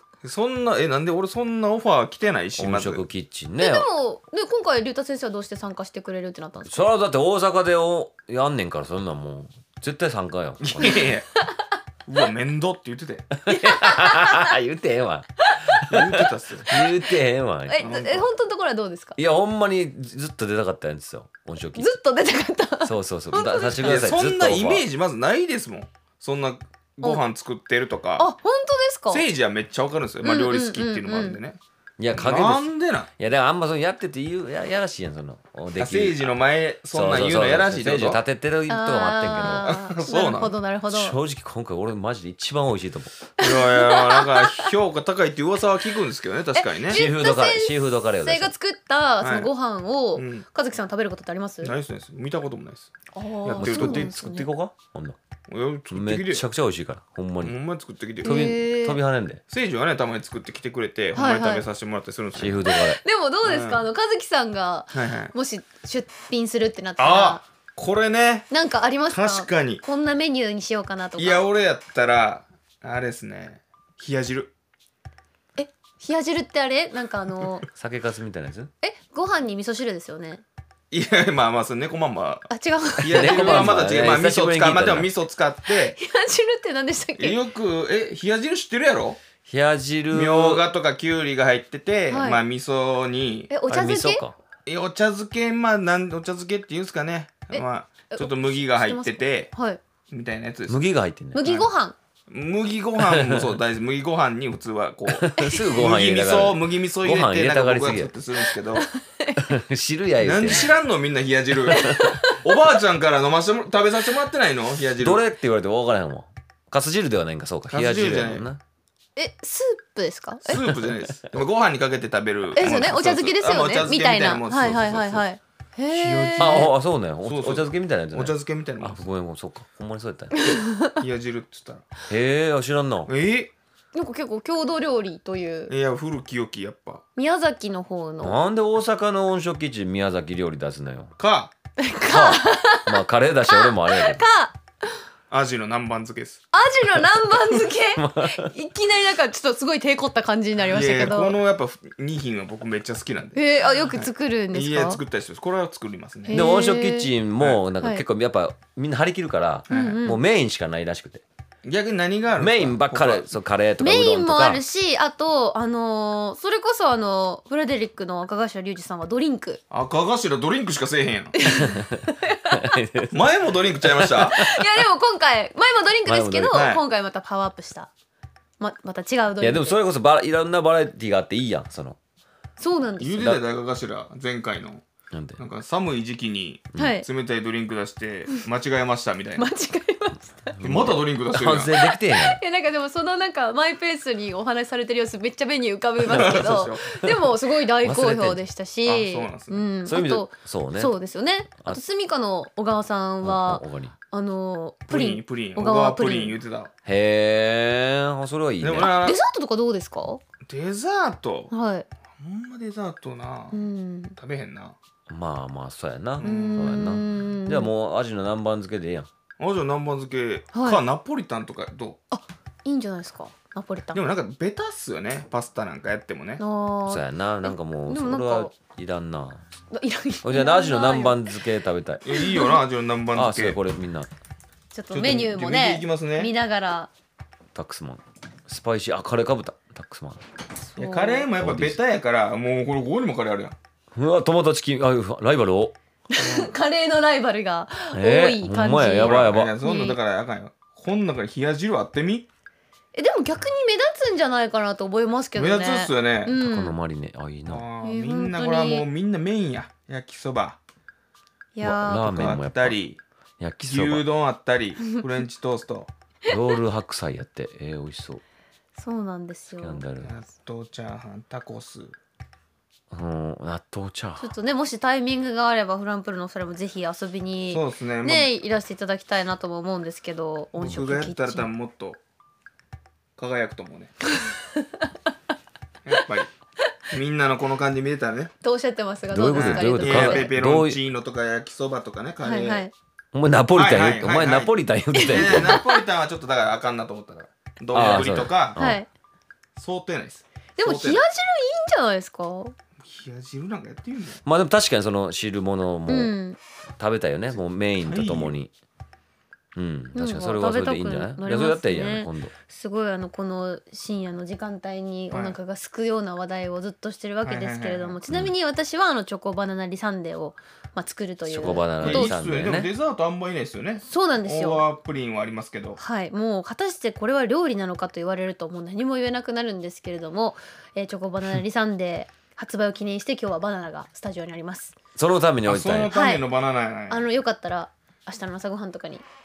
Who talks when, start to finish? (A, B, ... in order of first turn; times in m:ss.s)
0:00.2-0:03.0 A
0:02.6-0:03.8 B
0:03.6-0:06.9 C
0:06.7-0:11.0 B
0:10.6-0:11.3 A
0:12.0-0:13.3 A
0:13.5-0:17.9 B
0:13.5-0:14.5 C
0:15.5-0:15.9 C
0:15.9-0:16.8 A
0:17.7-0:19.2 C
0:17.8-0:18.3 A
0:19.2-0:22.0 B
0:21.7-0:23.8 C
0:22.8-0:24.8 B
0:23.8-0:28.3 A
0:28.2-0:29.2 C
0:29.1-0:31.6 A
0:30.2-0:31.4 C
0:32.0-0:36.3 B
0:32.1-0:33.1 A
0:35.8-0:38.2 A
0:36.9-0:39.7 B
0:38.7-0:41.2 C
0:39.4-0:40.6 A
0:40.9-0:43.2 B
0:43.4-0:47.0 A
0:43.4-0:44.6 C
0:46.5-0:51.7 C
0:46.9-0:48.5 B
0:49.2-0:49.5 A
0:50.1-0:50.4 A
0:51.6-0:52.9 A
0:53.1-0:54.5 C
0:53.4-0:54.1 A
0:53.6-0:55.2 B
0:55.5-0:56.4 A
0:55.9-0:57.6 B
0:57.4-0:58.4 A
0:58.2-0:59.0 C
0:58.2-0:59.4 B
0:59.5-1:02.7 A
1:01.1-1:01.6 C
1:02.3-1:03.0 B
1:02.6-1:07.4 C
1:03.4-1:03.9 A
1:04.9-1:05.3 A
1:07.0-1:08.5 A
1:08.5-1:11.4 C
1:09.1-1:09.8 A
1:11.2-1:14.5 A
1:15.6-1:17.6 C
1:17.8-1:18.7 B
1:18.8-1:20.4 C
1:20.9-1:26.0 A
1:22.5-1:23.8 C
1:23.1-1:25.1 B
1:25.7-1:27.4 C
1:27.2-1:29.2 A
1:29.4-1:30.6 B
1:30.1-1:33.6 A
1:32.1-1:32.4 C
1:33.5-1:34.2 C
1:33.7-1:34.4 B
1:34.6-1:39.5 A
1:37.5-1:39.8 C
1:40.1-1:40.9 A
1:40.7-1:41.4 B
1:41.3-1:41.9 C
1:41.4-1:41.7 A
1:42.3-1:48.8 A
1:43.0-1:43.5 B
1:45.1-1:48.1 B
1:45.4-1:45.6 C
1:48.7-1:49.5 C
1:49.5-1:50.7 B
1:50.2-1:55.2 A
1:51.7-1:52.2 B
1:51.8-1:52.2 C
1:55.0-1:58.6 B
1:57.7-1:58.5 A
1:59.2-2:00.7 C
2:00.4-2:05.3 A
2:00.5-2:01.4 B
2:02.5-2:06.7 C
2:05.9-2:09.0 A
2:06.4-2:10.6 B
2:10.4-2:11.0 C
2:11.0-2:11.9 A
2:12.1-2:13.1 B
2:13.1-2:13.5 A
2:13.9-2:15.7 C
2:15.7-2:17.0 A
2:17.2-2:18.4 C
2:18.2-2:21.1 B
2:21.2-2:21.5 A
2:21.8-2:24.6 C
2:22.0-2:24.2 B
2:25.3-2:26.4 A
2:26.5-2:31.4 C
2:28.0-2:28.5 B
2:30.6-2:36.5 A
2:33.3-2:35.0 C
2:36.2-2:37.1 C
2:36.3-2:41.2 B
2:37.4-2:37.6 A
2:39.7-2:40.0 A
2:39.7-2:40.2 C
2:41.6-2:43.3 A
2:42.4-2:44.6 B
2:43.8-2:49.6 C
2:49.7-2:51.3 A
2:51.3-2:52.8 C
2:51.6-2:52.0 B
2:52.5-2:53.3 B
2:53.1-2:54.4 A
2:54.0-2:54.6 B
2:54.2-2:57.9 C
2:56.0-2:56.6 B
2:56.5-2:56.8 A
2:58.6-2:59.8 C
2:59.4-3:02.0 B
3:02.6-3:03.2 C
3:03.0-3:04.8 A
3:03.1-3:03.4 B
3:05.1-3:05.4 B
3:05.4-3:09.5 A
3:06.7-3:07.0 C
3:09.4-3:10.6 C
3:10.6-3:12.4 B
3:10.6-3:11.8 A
3:11.8-3:26.4 C
3:16.0-3:16.8 A
3:17.8-3:18.4 B
3:18.8-3:19.6 A
3:19.8-3:20.9 B
3:23.2-3:23.9 B
3:24.9-3:26.7 A
3:26.8-3:29.0 B
3:28.6-3:29.2 A
3:28.7-3:30.2 C
3:30.5-3:31.5 A
3:31.5-3:31.8 C
3:32.2-3:33.6 A
3:33.5-3:34.2 C
3:34.2-3:34.7 A
3:35.1-3:39.1 B
3:36.2-3:36.9 A
3:36.2-3:37.7 C
3:39.4-3:42.0 A
3:40.5-3:40.8 C
3:42.1-3:44.0 C
3:43.9-3:46.4 A
3:46.4-3:48.5 C
3:46.8-3:49.4 B
3:49.7-3:51.3 C
3:50.2-3:52.0 B
3:52.0-3:53.6 A
3:52.1-3:52.6 C
3:53.1-3:54.1 B
3:54.7-3:56.9 C
3:54.9-3:56.3 A
3:57.5-4:00.2 B
4:00.6-4:01.3 C
4:00.8-4:03.6 A
4:01.4-4:01.8 B
4:03.9-4:05.7 B
4:06.1-4:10.0 C
4:06.2-4:06.5 A
4:07.9-4:09.5 B
4:09.0-4:12.3 A
4:12.9-4:16.8 C
4:15.3-4:16.4 A
4:16.3-4:17.7 B
4:17.4-4:20.6 A
4:17.8-4:18.9 C
4:21.5-4:22.3 C
4:21.6-4:22.8 B
4:21.9-4:23.0 A
4:23.4-4:24.1 B
4:23.6-4:25.9 A
4:26.3-4:28.2 B
4:28.8-4:29.8 C
4:29.6-4:30.1 B
4:30.0-4:31.9 A
4:32.9-4:34.3 B
4:34.2-4:41.5 C
4:37.5-4:38.3 A
4:40.6-4:42.0 A
4:43.2-4:43.9 A
4:44.2-4:44.8 C
4:45.8-4:46.3 A
4:46.9-4:48.3 A
4:48.4-4:50.3 C
4:49.1-4:50.8 B
4:49.3-4:52.7 A
4:52.2-4:52.7 C
4:53.1-4:55.6 B
4:53.5-4:58.6 A
4:54.9-4:55.8 C
4:57.7-4:58.8 B
4:58.6-4:58.9 C
4:59.6-5:01.0 A
5:00.6-5:02.5 C
5:02.8-5:04.2 A
5:04.2-5:06.1 B
5:05.9-5:06.4 C
5:06.8-5:08.5 B
5:07.8-5:08.4 A
5:09.5-5:12.3 B
5:09.9-5:22.2 C
5:15.1-5:15.4 A
5:17.2-5:18.0 A
5:21.2-5:22.7 B
5:21.8-5:25.8 A
5:23.8-5:24.7 C
5:25.8-5:34.8 C
5:35.0-5:35.9 B
5:35.4-5:37.0 A
5:35.9-5:36.3 C
5:36.9-5:39.0 C